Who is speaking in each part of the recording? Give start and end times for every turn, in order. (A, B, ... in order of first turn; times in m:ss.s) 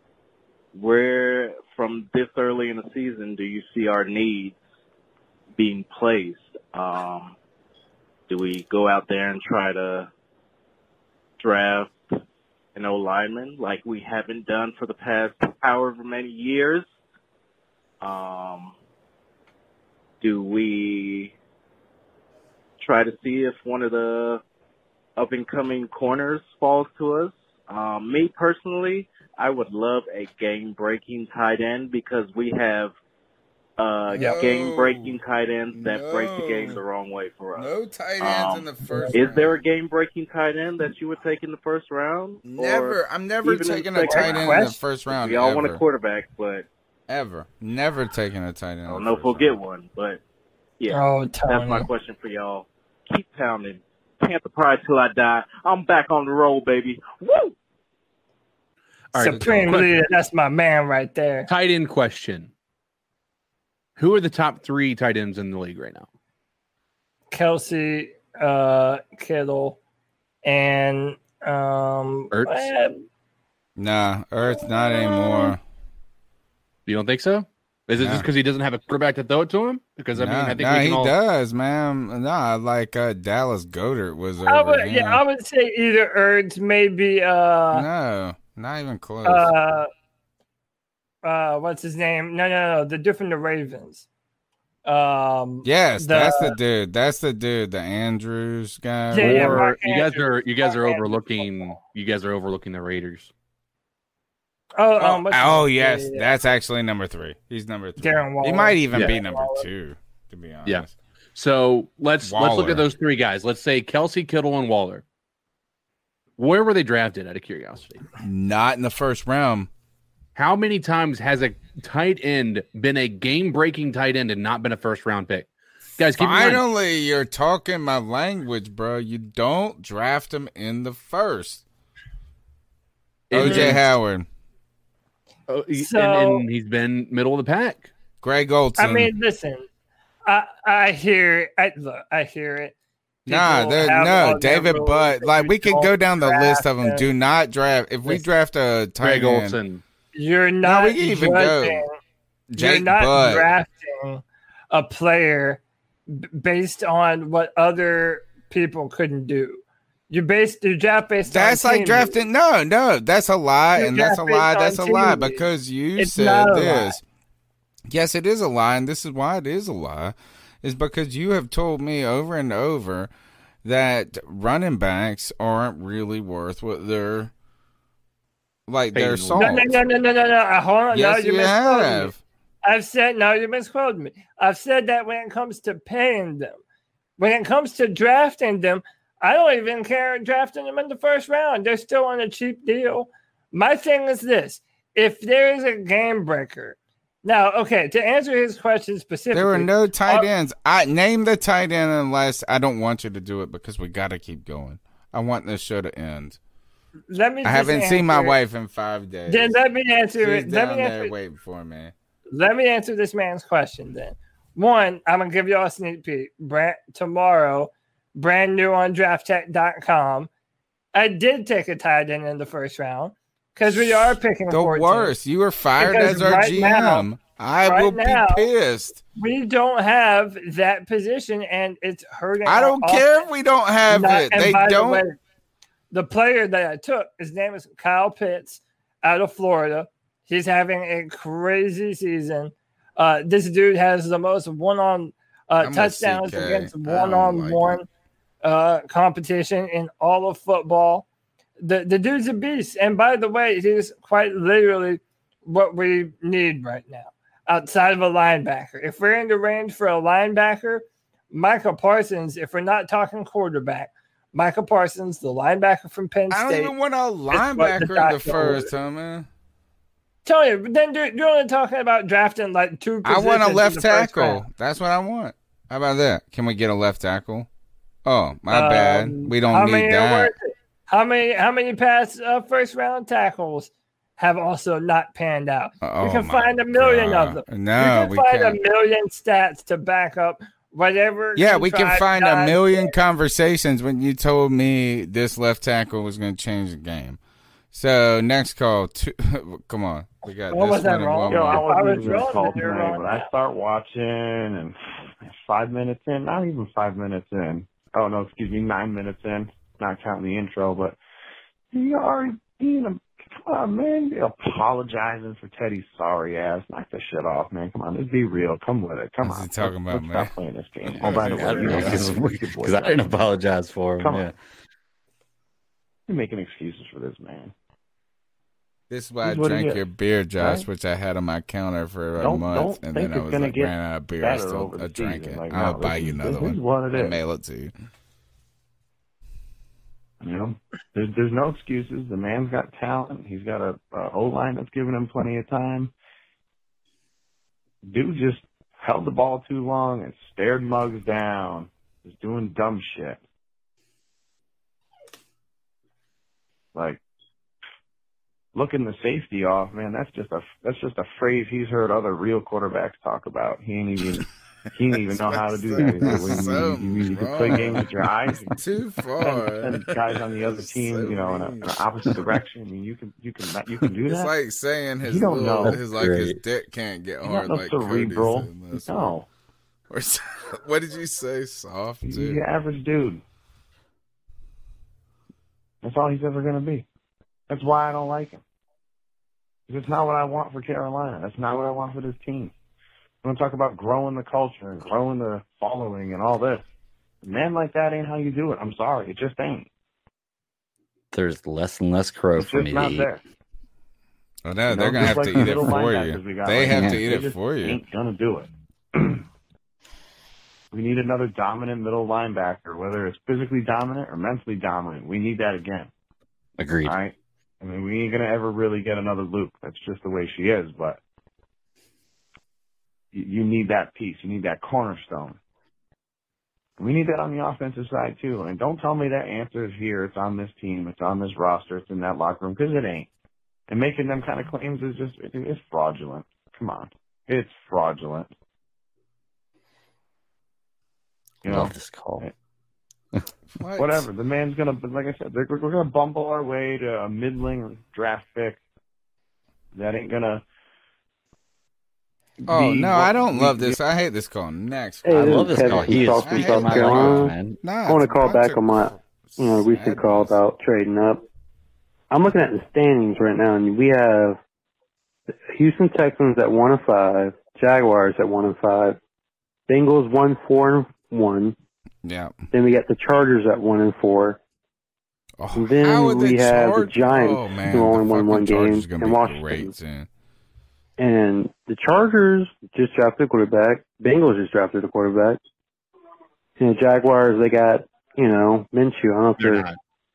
0:00.7-0:04.6 A
0:05.6-0:07.4 A
0:08.3-0:10.1 A
0:11.4-0:11.9 A
0:12.7-0:16.8 A
0:18.0-0:18.8 A
0:20.2-0:21.3 A
0:22.8-0:24.4 A
0:25.2-0:32.9 A
0:33.8-0:37.7 A
0:34.1-0:35.2 B
0:34.2-0:34.4 C
0:35.7-0:36.8 B
0:37.6-0:39.6 B
0:38.2-0:46.7 A
0:38.9-0:39.2 C
0:42.4-0:45.8 B
0:43.9-0:44.8 C
0:47.1-0:49.6 B
0:48.8-0:50.2 A
0:50.8-0:57.5 A
0:50.9-0:51.9 C
0:59.1-1:00.0 D
0:59.2-1:01.5 C
0:59.3-1:00.0 B
1:01.5-1:02.5 D
1:04.0-1:06.1 D
1:07.3-1:09.8 C
1:10.4-1:13.0 C
1:12.3-1:12.7 D
1:13.8-1:15.6 B
1:14.5-1:15.6 C
1:16.9-1:21.1 D
1:18.0-1:18.3 B
1:20.1-1:25.2 B
1:24.4-1:27.8 C
1:27.7-1:29.5 B
1:29.2-1:29.9 C
1:31.2-1:34.0 C
1:34.8-1:36.5 C
1:35.6-1:39.7 B
1:39.1-1:41.5 C
1:39.1-1:43.3 D
1:44.8-1:46.3 C
1:45.0-1:50.9 B
1:48.0-1:49.7 C
1:48.9-1:49.2 D
1:50.6-1:55.0 D
1:52.2-1:52.8 B
1:56.4-1:58.0 D
1:58.2-1:59.7 B
2:00.4-2:06.6 D
2:06.2-2:11.6 B
2:13.3-2:13.9 D
2:13.3-2:14.3 B
2:13.4-2:13.8 C
2:15.5-2:17.9 D
2:15.7-2:16.4 C
2:18.2-2:19.1 B
2:18.8-2:19.6 C
2:20.3-2:22.7 C
2:23.3-2:27.0 C
2:23.3-2:29.6 B
2:29.0-2:29.8 D
2:30.2-2:31.9 C
2:30.6-2:31.8 B
2:32.5-2:33.5 B
2:32.6-2:42.1 C
2:41.3-2:47.0 B
2:43.8-2:45.4 C
2:46.0-2:47.0 C
2:47.9-2:53.1 B
2:53.6-2:57.3 B
2:58.7-2:59.8 B
2:58.9-2:59.8 D
2:59.4-3:02.1 C
3:00.9-3:02.2 B
3:02.6-3:06.6 C
3:07.2-3:20.3 C
3:19.3-3:26.4 B
3:27.1-3:28.4 C
3:27.4-3:29.6 B
3:29.3-3:31.1 C
3:30.2-3:31.9 B
3:32.3-3:40.3 C
3:40.9-3:45.1 C
3:43.6-3:49.0 B
3:45.8-3:47.1 C
3:47.6-3:48.4 C
3:49.2-3:53.1 C
3:52.4-3:55.0 B
3:53.9-3:55.2 C
3:55.9-4:07.8 C
4:05.6-4:07.8 B
4:08.4-4:11.1 C
4:11.6-4:26.7 C
4:26.3-4:29.3 B
4:27.3-4:28.7 C
4:30.2-4:34.4 C
4:33.0-4:37.5 B
4:38.1-4:40.3 B
4:38.5-4:52.9 C
4:45.8-4:48.6 B
4:51.4-4:57.2 B
4:57.7-5:02.4 B
5:00.5-5:03.2 C
5:01.3-5:11.0 E
5:11.7-5:23.3 E
5:19.2-5:20.3 B
5:20.9-5:24.3 F
5:21.0-5:22.1 B
5:24.0-5:24.3 E
5:26.1-5:27.5 E
5:28.9-5:37.7 B
5:29.2-5:29.8 E
5:30.4-5:30.7 E
5:32.2-5:37.2 E
5:40.2-5:45.9 E
5:47.8-5:53.2 E
5:56.7-5:57.0 E
5:58.6-6:08.6 E
6:05.1-6:07.9 B
6:05.9-6:06.6 F
6:07.5-6:07.8 F
6:08.6-6:09.9 B
6:09.2-6:14.3 E
6:10.4-6:11.8 B
6:14.1-6:19.1 B
6:15.0-6:15.8 E
6:15.6-6:16.4 F
6:17.2-6:19.3 E
6:19.9-6:22.4 B
6:22.0-6:23.2 E
6:25.8-6:26.8 E
6:27.5-6:28.4 E
6:29.7-6:32.5 E
6:33.2-6:36.6 E
6:37.2-6:39.7 E
6:41.1-6:43.1 F
6:42.4-6:43.2 E
6:44.4-6:47.8 B
6:44.7-6:49.2 E
6:45.1-6:45.7 F
6:46.7-6:47.0 F
6:50.7-6:55.9 E
6:56.6-6:57.0 F
6:56.8-7:01.0 E
7:03.1-7:05.4 E
7:06.8-7:13.1 E
7:13.7-7:18.3 E
7:21.4-7:22.3 E
7:21.5-7:22.2 F
7:23.6-7:24.1 B
7:23.8-7:28.6 E
7:29.7-7:30.4 E
7:32.5-7:40.4 B
7:32.5-7:33.1 E
7:35.0-7:37.4 G
7:35.1-7:37.5 F
7:37.8-7:41.2 G
7:42.1-7:44.4 G
7:45.5-7:49.0 G
7:49.7-7:51.6 G
7:52.0-7:52.3 B
7:52.5-7:54.4 G
7:55.4-8:00.1 B
7:55.6-7:59.7 G
8:01.0-8:05.4 G
8:06.6-8:09.7 G
8:09.4-8:09.8 D